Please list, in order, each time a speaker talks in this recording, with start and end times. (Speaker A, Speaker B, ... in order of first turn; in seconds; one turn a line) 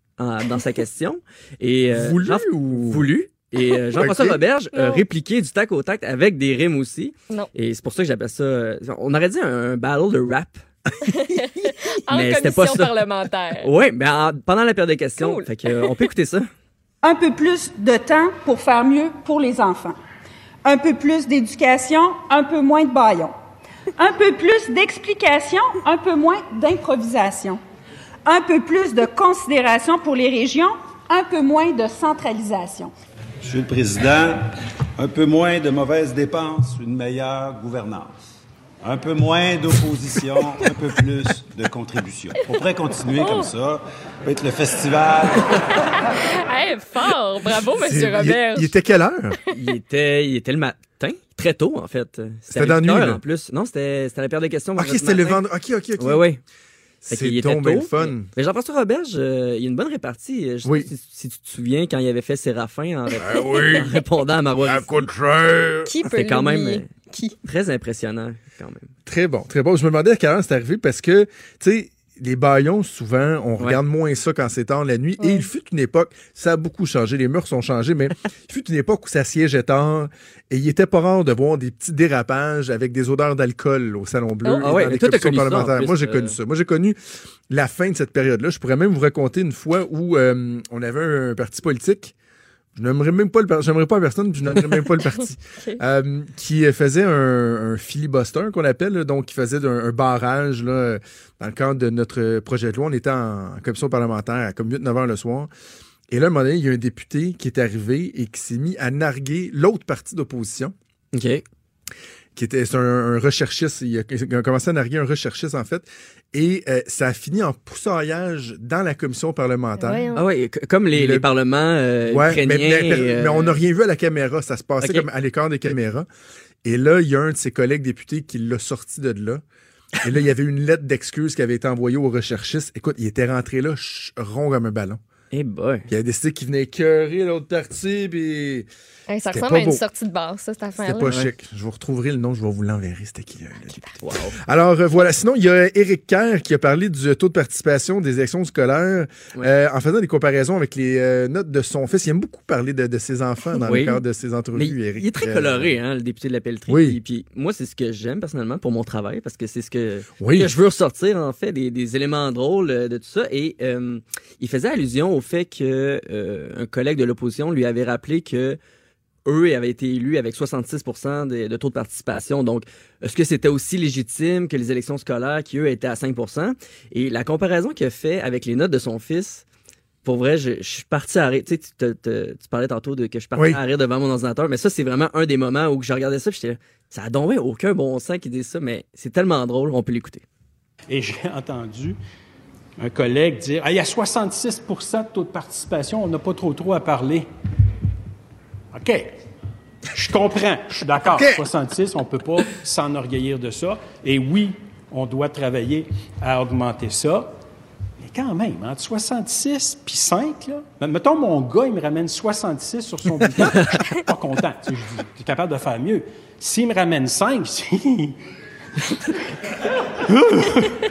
Speaker A: 0.2-10.6
Speaker B: 1.9-3.1
Speaker B: 4.0-4.4
Speaker C: 4.7-5.0
Speaker C: 11.1-13.7
Speaker A: 12.1-13.0
Speaker A: 13.6-16.5
Speaker C: 15.2-15.9
Speaker D: 17.0-20.0
Speaker D: 20.6-23.3
Speaker D: 23.9-27.6
Speaker D: 28.2-32.9
Speaker E: 33.4-34.4
Speaker E: 35.0-38.1
Speaker E: 38.8-45.6
Speaker C: 43.2-43.5
Speaker C: 46.4-48.7
Speaker B: 47.7-49.4
Speaker A: 49.5-55.4
Speaker B: 52.5-53.2
Speaker B: 54.8-56.2
Speaker A: 56.0-56.4
Speaker B: 57.0-58.3
Speaker A: 57.1-65.0
Speaker B: 60.6-60.9
Speaker B: 63.2-64.0
Speaker C: 63.3-63.7
Speaker B: 64.6-65.9
Speaker C: 65.8-67.3
Speaker A: 66.1-66.8
Speaker A: 67.4-68.9
Speaker B: 69.0-87.0
Speaker A: 84.6-86.3
Speaker B: 87.5-92.1
Speaker B: 92.8-105.5
Speaker B: 106.1-110.7
Speaker A: 111.1-111.4
Speaker B: 112.3-120.0
Speaker C: 119.8-120.2
Speaker A: 120.1-123.6
Speaker B: 120.9-121.3
Speaker B: 122.0-126.0
Speaker A: 124.8-125.0
Speaker B: 126.6-129.4
Speaker B: 130.0-135.0
Speaker A: 135.3-135.9
Speaker B: 135.9-138.7
Speaker C: 139.1-141.1
Speaker B: 139.3-139.8
Speaker B: 140.8-155.7
Speaker A: 144.0-144.4
Speaker A: 153.6-154.0
Speaker A: 154.5-168.6
Speaker B: 156.7-157.0
Speaker B: 160.2-160.5
Speaker A: 169.2-179.4
Speaker A: 180.0-190.2
Speaker F: 190.9-191.9
Speaker F: 192.8-197.2
Speaker F: 198.7-199.1
Speaker F: 199.9-207.3
Speaker B: 201.1-201.4
Speaker F: 208.0-218.1